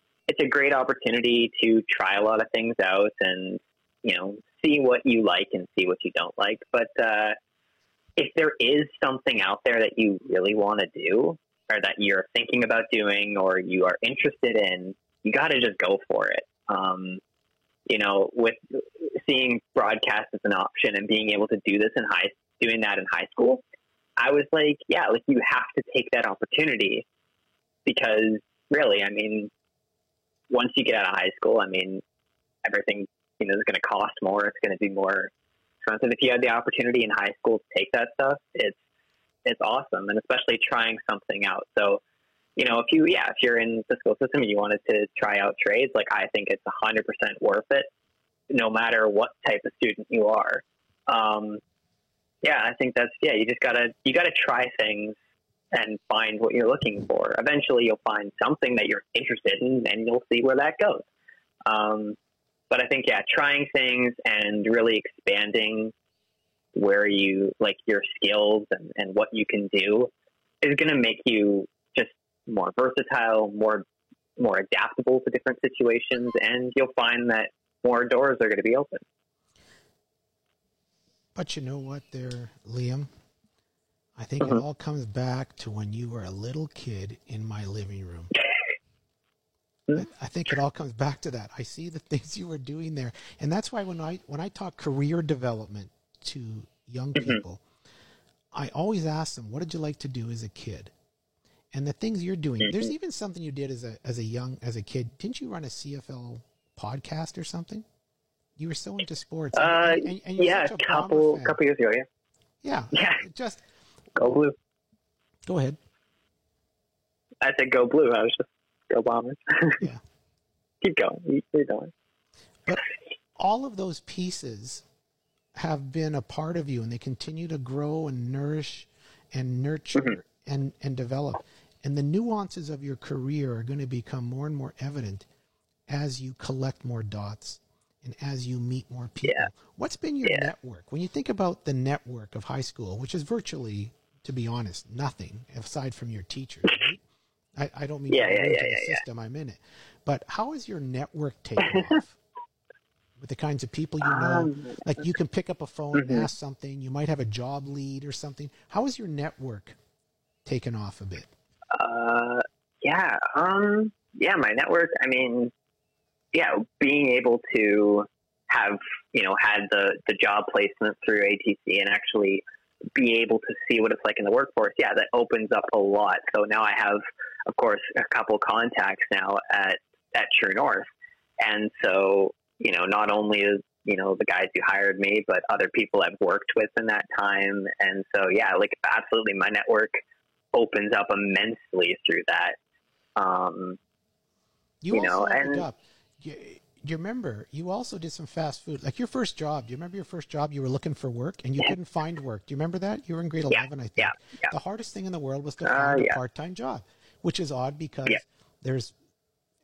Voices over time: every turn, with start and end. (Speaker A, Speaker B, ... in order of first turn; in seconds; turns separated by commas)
Speaker A: 0.3-7.3, Speaker A: 8.2-17.2, Speaker A: 17.9-23.6, Speaker A: 24.2-27.0, Speaker A: 27.8-29.5, Speaker A: 30.5-32.0, Speaker A: 32.6-35.3, Speaker A: 35.8-38.8, Speaker A: 39.4-42.0, Speaker A: 42.6-47.9, Speaker A: 48.5-51.6, Speaker A: 52.4-55.2, Speaker A: 55.7-61.0, Speaker A: 61.6-62.1, Speaker A: 62.7-65.9, Speaker A: 66.7-70.1, Speaker A: 70.6-73.8, Speaker A: 74.4-79.0, Speaker B: 81.3-83.1, Speaker B: 84.2-88.3, Speaker B: 89.9-97.6, Speaker B: 98.5-100.9, Speaker B: 101.7-107.8, Speaker B: 108.6-111.6, Speaker A: 109.5-112.0, Speaker B: 112.6-113.6, Speaker A: 112.9-113.2, Speaker A: 114.2-114.5, Speaker B: 115.5-115.8, Speaker A: 117.4-119.8, Speaker A: 120.8-121.9, Speaker B: 123.4-124.8, Speaker B: 125.5-135.2, Speaker B: 135.9-147.0, Speaker A: 139.2-139.5, Speaker B: 147.6-152.2, Speaker A: 148.1-149.0, Speaker B: 153.2-159.8, Speaker A: 154.0-155.0, Speaker A: 155.9-156.3, Speaker B: 160.4-161.3, Speaker A: 161.7-165.5, Speaker A: 166.3-172.4, Speaker A: 172.9-180.9, Speaker A: 181.4-190.0, Speaker A: 190.5-192.6, Speaker A: 193.2-193.8, Speaker B: 194.8-208.9, Speaker A: 194.9-195.7, Speaker A: 203.5-204.5, Speaker A: 205.6-206.2